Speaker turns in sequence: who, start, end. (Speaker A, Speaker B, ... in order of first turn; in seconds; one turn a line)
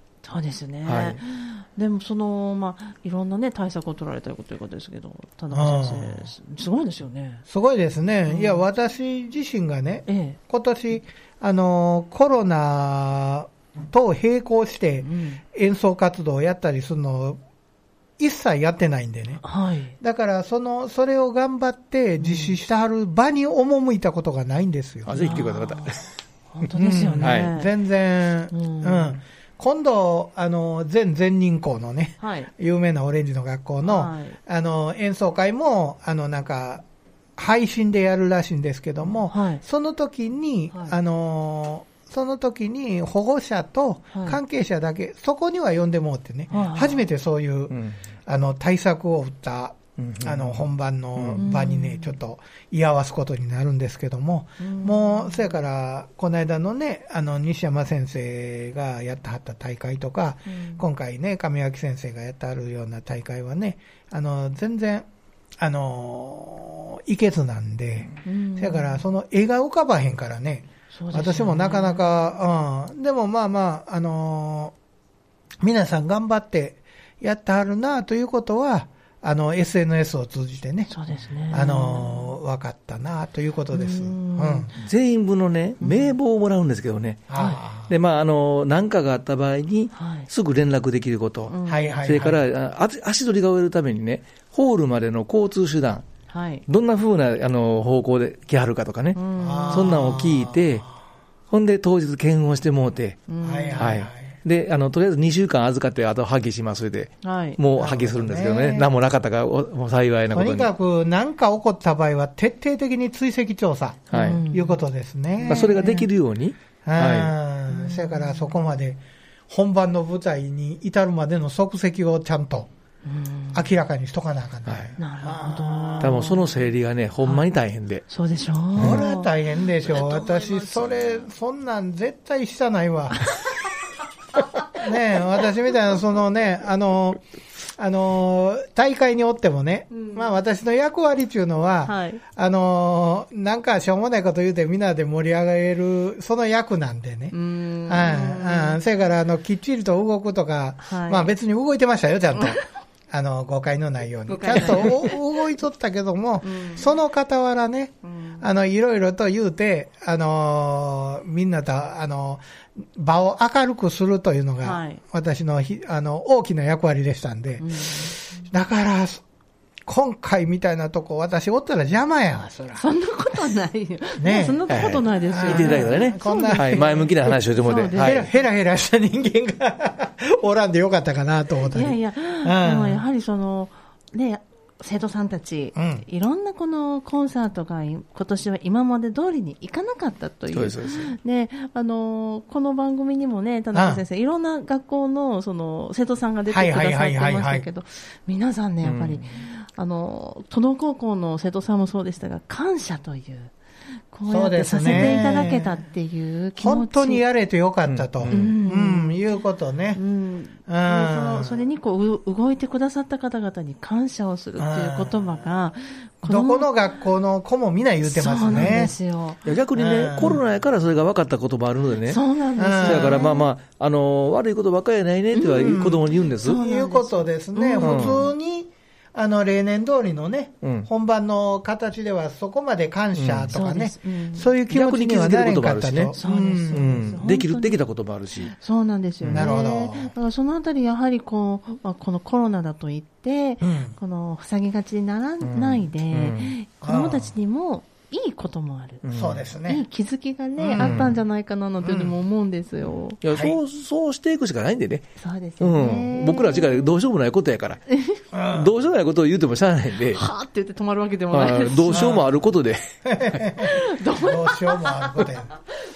Speaker A: 0.2-7.4
Speaker B: 0.8-1.2
Speaker C: 5.5-6.3
Speaker C: 7.5-17.4
Speaker A: 8.3-8.7
Speaker A: 10.1-10.4
Speaker A: 15.0-15.4
Speaker C: 18.2-19.4
Speaker A: 19.4-19.9
Speaker C: 20.0-25.2
Speaker A: 22.2-22.6
Speaker B: 25.1-26.1
Speaker A: 25.1-27.7
Speaker C: 26.8-36.8
Speaker B: 27.2-27.5
Speaker A: 28.5-29.2
Speaker A: 32.2-32.5
Speaker A: 33.8-34.4
Speaker C: 37.4-65.1
Speaker A: 39.3-39.6
Speaker A: 44.1-44.4
Speaker A: 46.5-47.0
Speaker B: 47.7-48.0
Speaker B: 50.0-50.6
Speaker B: 51.2-51.4
Speaker A: 51.4-52.2
Speaker A: 54.6-55.6
Speaker A: 60.5-60.8
Speaker C: 65.6-74.7
Speaker A: 68.2-69.0
Speaker A: 70.9-72.1
Speaker C: 75.6-80.9
Speaker A: 80.9-82.3
Speaker C: 81.5-84.7
Speaker A: 83.7-84.7
Speaker B: 84.8-96.0
Speaker A: 85.8-86.2
Speaker C: 87.3-87.9
Speaker A: 87.3-87.6
Speaker A: 90.0-90.3
Speaker A: 91.5-91.9
Speaker C: 91.7-92.4
Speaker A: 96.3-96.7
Speaker B: 96.7-99.2
Speaker A: 99.1-100.0
Speaker C: 99.4-100.7
Speaker B: 99.7-100.9
Speaker B: 101.5-103.2
Speaker A: 103.3-103.9
Speaker C: 103.4-104.3
Speaker B: 103.8-110.7
Speaker A: 107.2-107.6
Speaker C: 107.8-108.9
Speaker C: 110.3-116.1
Speaker B: 114.1-114.4
Speaker A: 114.1-114.8
Speaker B: 115.4-117.3
Speaker A: 115.5-116.0
Speaker C: 116.8-122.7
Speaker A: 117.7-118.5
Speaker A: 123.0-123.6
Speaker C: 123.5-126.2
Speaker B: 124.7-124.9
Speaker A: 125.0-126.5
Speaker B: 126.0-128.0
Speaker A: 128.1-131.3
Speaker B: 128.8-129.0
Speaker C: 128.8-133.3
Speaker A: 133.2-133.5
Speaker C: 134.7-137.2
Speaker C: 137.8-147.3
Speaker A: 139.9-140.3
Speaker A: 141.9-142.2
Speaker A: 147.3-148.8
Speaker C: 147.9-169.2
Speaker A: 150.8-151.3
Speaker A: 154.3-155.2
Speaker A: 156.4-156.9
Speaker A: 158.0-158.4
Speaker A: 164.6-165.0
Speaker A: 167.6-168.4
Speaker C: 169.9-172.8
Speaker A: 172.8-178.3
Speaker C: 174.2-174.6
Speaker B: 174.7-178.3
Speaker C: 175.2-177.3
Speaker C: 177.9-183.0
Speaker A: 181.7-203.5
Speaker C: 185.8-186.0
Speaker B: 190.5-191.2
Speaker C: 193.7-194.0
Speaker C: 196.5-197.7
Speaker B: 198.8-199.2
Speaker A: 204.1-207.2
Speaker C: 204.3-205.8
Speaker C: 206.6-210.0
Speaker B: 207.9-208.5
Speaker A: 208.3-209.2
Speaker A: 209.9-216.7
Speaker C: 210.7-211.6
Speaker C: 214.6-215.4
Speaker C: 216.2-218.9
Speaker A: 218.0-219.4
Speaker B: 218.5-218.8
Speaker B: 219.4-222.2
Speaker C: 219.8-220.4
Speaker A: 222.1-223.5
Speaker C: 222.6-223.3
Speaker B: 222.8-226.6
Speaker A: 225.3-228.3
Speaker C: 225.6-237.2
Speaker B: 227.8-228.2
Speaker B: 230.6-230.9
Speaker B: 233.2-233.5
Speaker A: 233.5-234.5
Speaker B: 234.7-238.5
Speaker A: 236.2-237.8
Speaker A: 238.4-249.1
Speaker B: 239.2-239.5
Speaker C: 239.3-240.1
Speaker C: 243.6-244.0
Speaker B: 245.4-246.5
Speaker C: 246.8-247.3
Speaker B: 249.0-249.4
Speaker C: 249.1-249.8
Speaker A: 249.7-253.2
Speaker C: 250.6-251.1
Speaker B: 250.8-251.2
Speaker C: 251.8-252.2
Speaker B: 253.2-257.8
Speaker C: 253.3-253.6
Speaker A: 255.2-256.9
Speaker A: 257.9-258.2
Speaker C: 258.3-258.7
Speaker B: 258.5-260.2
Speaker A: 260.1-262.2
Speaker B: 261.3-263.5
Speaker C: 261.9-262.3
Speaker C: 263.1-265.5
Speaker A: 263.6-265.6